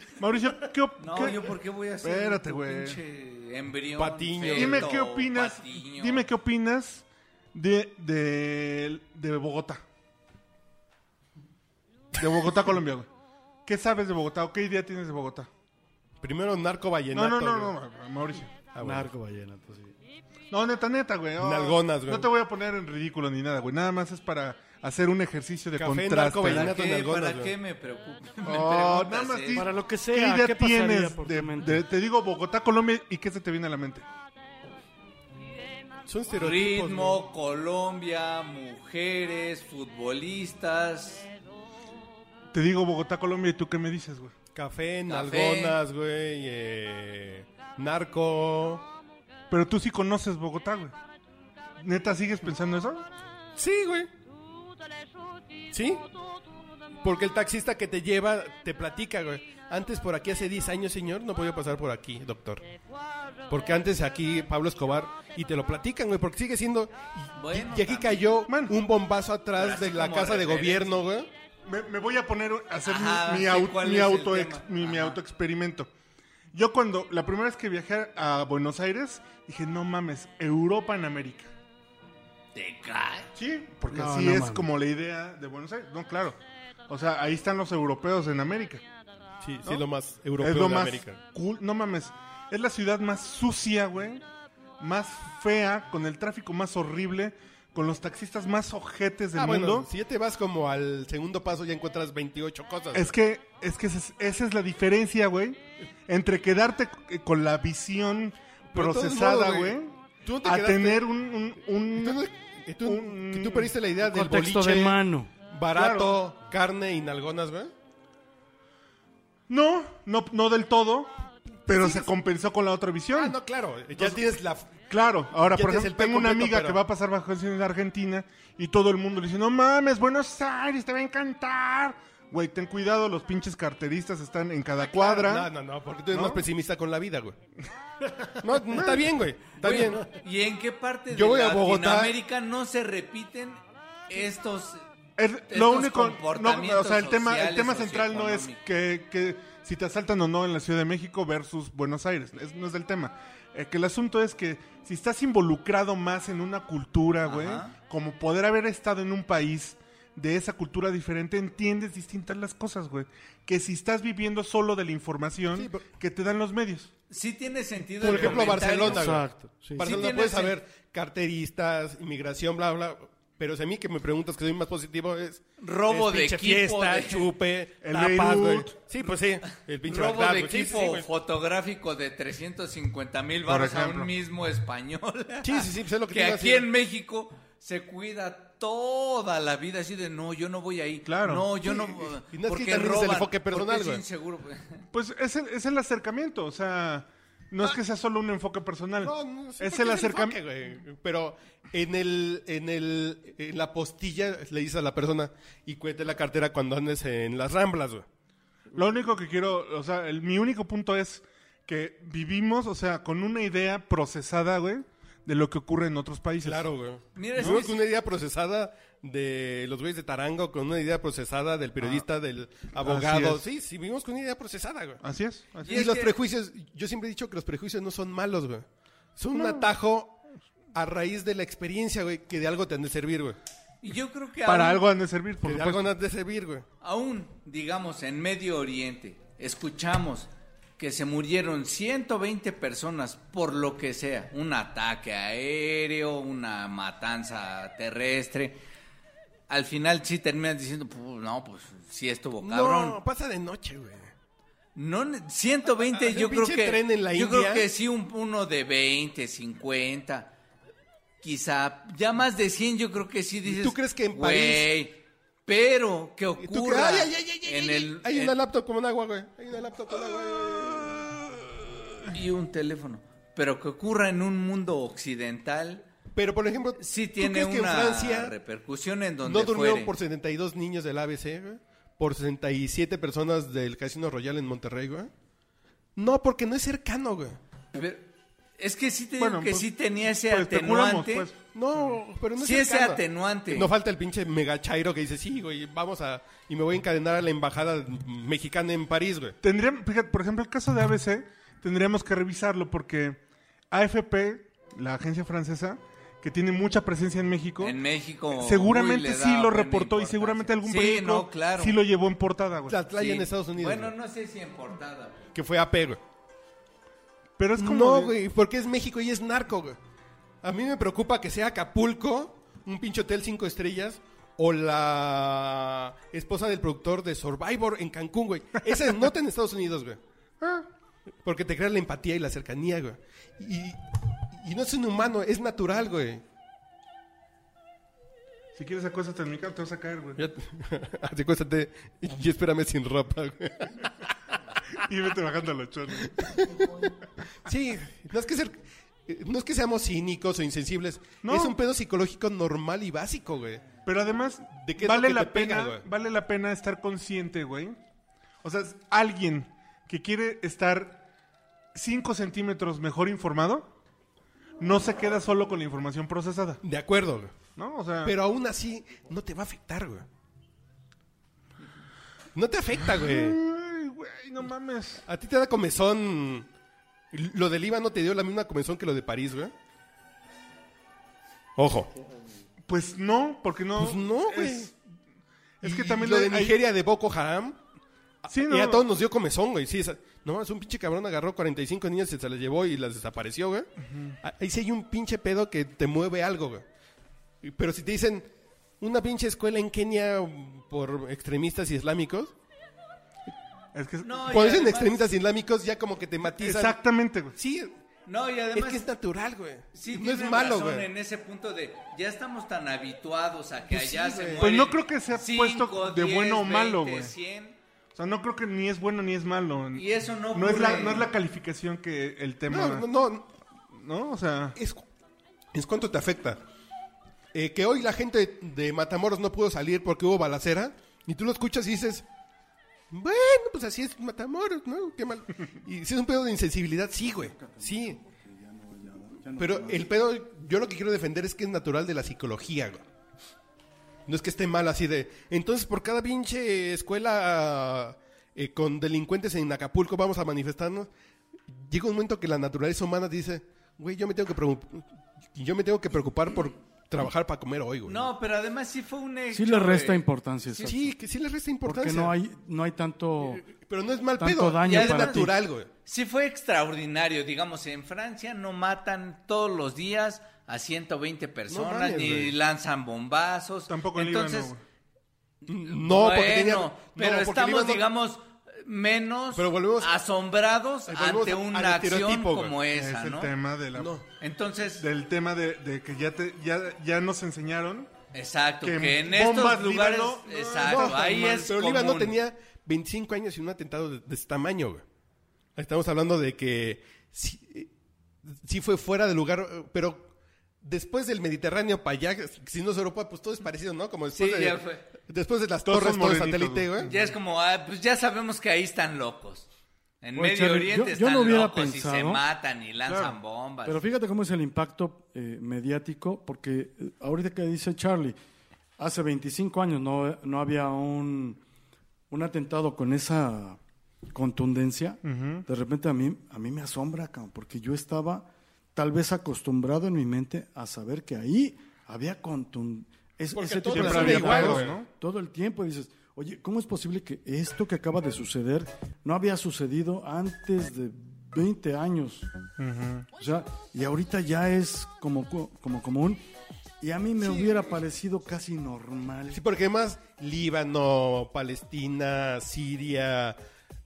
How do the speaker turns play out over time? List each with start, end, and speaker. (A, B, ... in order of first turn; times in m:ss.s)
0:00.2-0:03.0 A
0:01.0-0:06.3 B
0:04.0-0:04.9 C
0:04.5-0:09.8 A
0:12.1-0:13.1 A
0:13.6-0:15.5 A
0:16.2-0:17.7 C
0:17.1-0:18.6 A
0:18.7-0:19.1 C
0:18.8-0:19.9 D
0:20.5-0:26.7 A
0:21.4-0:22.3 C
0:25.7-0:27.5 C
0:26.4-0:29.7 B
0:28.4-0:34.0 A
0:29.5-0:31.8 D
0:36.0-0:37.2 C
0:36.4-0:41.3 B
0:42.5-0:44.3 A
0:44.5-0:48.9 C
0:45.1-0:45.8 B
0:49.5-0:50.9 A
0:51.8-0:53.1 A
0:53.5-0:54.1 C
0:55.7-0:56.1 C
0:57.0-1:02.6 C
1:03.5-1:11.3 C
1:07.4-1:08.3 B
1:08.5-1:08.7 A
1:09.6-1:11.0 B
1:11.6-1:15.9 A
1:12.8-1:15.2 B
1:16.5-1:21.5 A
1:22.5-1:23.3 B
1:23.3-1:28.8 A
1:23.9-1:24.7 D
1:29.4-1:31.2 C
1:30.4-1:34.2 A
1:34.8-1:39.9 A
1:39.3-1:43.1 C
1:42.9-1:52.2 A
1:48.7-1:51.0 C
1:52.0-1:57.7 C
1:52.8-1:53.7 A
1:54.0-1:55.3 D
1:55.7-1:56.1 A
1:59.5-2:01.1 A
2:01.6-2:03.3 A
2:01.7-2:02.1 C
2:03.1-2:04.8 C
2:04.8-2:15.5 A
2:05.5-2:06.8 C
2:14.8-2:17.4 C
2:16.1-2:16.4 A
2:18.0-2:19.1 A
2:18.4-2:20.0 C
2:19.6-2:24.8 B
2:21.1-2:22.2 C
2:25.2-2:46.9 A
2:25.5-2:28.6 B
2:37.2-2:37.7 B
2:45.5-2:45.9 C
2:47.1-2:49.2 B
2:48.0-2:48.8 A
2:48.0-3:01.1 C
2:48.8-2:49.8 D
2:49.8-2:50.6 B
2:55.6-2:57.3 B
2:57.8-2:58.7 A
2:59.8-3:14.8 B
3:03.5-3:04.1 A
3:05.4-3:06.7 C
3:11.0-3:11.5 A
3:11.6-3:14.0 C
3:14.9-3:20.4 A
3:19.0-3:28.1 C
3:28.7-3:36.7 A
3:36.4-3:45.0 C
3:37.1-3:37.8 B
3:42.8-3:43.4 A
3:45.0-3:45.8 A
3:45.6-3:46.1 B
3:45.6-3:50.2 C
3:49.3-3:49.6 A
3:50.7-3:53.4 C
3:53.8-3:54.8 B
3:54.4-3:55.8 A
3:55.4-3:56.6 C
3:56.8-4:08.6 B
4:09.5-4:13.0 B
4:12.4-4:14.1 C
4:14.7-4:20.3 B
4:15.9-4:17.7 C
4:21.2-4:28.3 B
4:23.4-4:24.7 C
4:26.4-4:31.6 C
4:32.1-4:35.8 B
4:36.1-4:38.4 C
4:36.8-4:39.9 B
4:39.2-4:45.1 C
4:46.0-4:47.4 C
4:47.7-4:48.1 B
4:48.6-4:51.3 B
4:49.2-4:49.7 A
4:50.3-4:51.4 A
4:51.5-4:59.4 C
4:52.4-4:53.7 B
4:59.4-5:03.2 A
5:03.7-5:07.8 A
5:07.6-5:11.8 B
5:08.3-5:12.8 A
5:12.7-5:13.9 C
5:13.0-5:15.2 B
5:15.3-5:16.0 C
5:17.4-5:18.1 A
5:17.6-5:19.8 C
5:20.4-5:30.0 C
5:30.4-5:30.6 A
5:31.2-5:36.2 C
5:38.5-5:40.2 A
5:40.2-5:43.9 C
5:44.7-5:46.6 A
5:46.2-5:46.8 C
5:47.4-5:53.7 C
5:51.2-5:51.5 A
5:53.8-5:57.8 A
5:54.5-5:55.8 C
5:58.4-6:01.0 A
6:01.7-6:03.7 A
6:04.6-6:06.6 A
6:06.6-6:07.4 C
6:07.6-6:08.1 A
6:08.0-6:10.1 C
6:12.3-6:13.4 C
6:13.0-6:15.0 A
6:15.0-6:16.5 C
6:17.1-6:19.5 C
6:21.6-6:21.9 C
6:22.7-6:24.8 A
6:23.8-6:24.7 C
6:25.6-6:26.6 A
6:25.6-6:27.6 C
6:28.2-6:33.7 C
6:28.3-6:28.8 A
6:33.9-6:34.1 A
6:34.2-6:36.6 C
6:37.4-6:42.3 C
6:43.7-6:44.2 A
6:44.0-6:45.1 B
6:44.3-6:46.8 C
6:46.3-6:47.3 A
6:47.3-6:47.7 C
6:48.0-6:48.8 B
6:48.5-6:50.9 C
6:49.7-6:57.6 B
6:53.7-6:54.5 C
6:54.4-6:57.1 A
6:57.9-7:02.8 A
6:59.7-7:01.1 B
7:02.5-7:03.3 C
7:03.7-7:04.6 A
7:04.6-7:04.8 C
7:05.5-7:06.4 C
7:07.3-7:12.1 C
7:12.9-7:18.0 C
7:17.3-7:19.9 D
7:19.4-7:22.8 C
7:24.1-7:30.9 C
7:31.5-7:38.1 C
7:37.8-7:40.0 B
7:39.3-7:40.9 D
7:40.6-7:42.1 C
7:41.6-7:43.4 D
7:43.2-7:45.7 C
7:44.2-7:45.4 D
7:44.6-7:45.3 B
7:45.8-7:54.5 B
7:51.5-7:52.3 C
7:53.7-7:54.6 A
7:55.4-7:57.8 C
7:55.8-8:03.3 B
7:59.3-7:59.9 C
8:00.9-8:02.5 C
8:02.7-8:04.0 A
8:03.7-8:04.0 C
8:04.2-8:04.8 B
8:04.8-8:07.9 A
8:08.1-8:12.1 B
8:08.6-8:11.0 A
8:10.6-8:14.8 C
8:15.6-8:17.7 C
8:18.2-8:20.1 C
8:20.6-8:26.9 C
8:24.1-8:24.8 B
8:25.6-8:26.9 A
8:26.8-8:29.5 B
8:30.0-8:33.8 B
8:30.2-8:32.2 D
8:32.9-8:33.1 A
8:33.6-8:38.2 D
8:38.8-8:41.4 D
8:42.1-8:43.6 D
8:44.1-9:02.3 D
8:45.0-8:45.4 A
8:53.3-8:54.8 C
8:53.7-8:54.9 A
9:02.6-9:03.1 A
9:03.2-9:06.2 D
9:06.8-9:09.4 D
9:07.2-9:07.8 C
9:09.3-9:13.4 C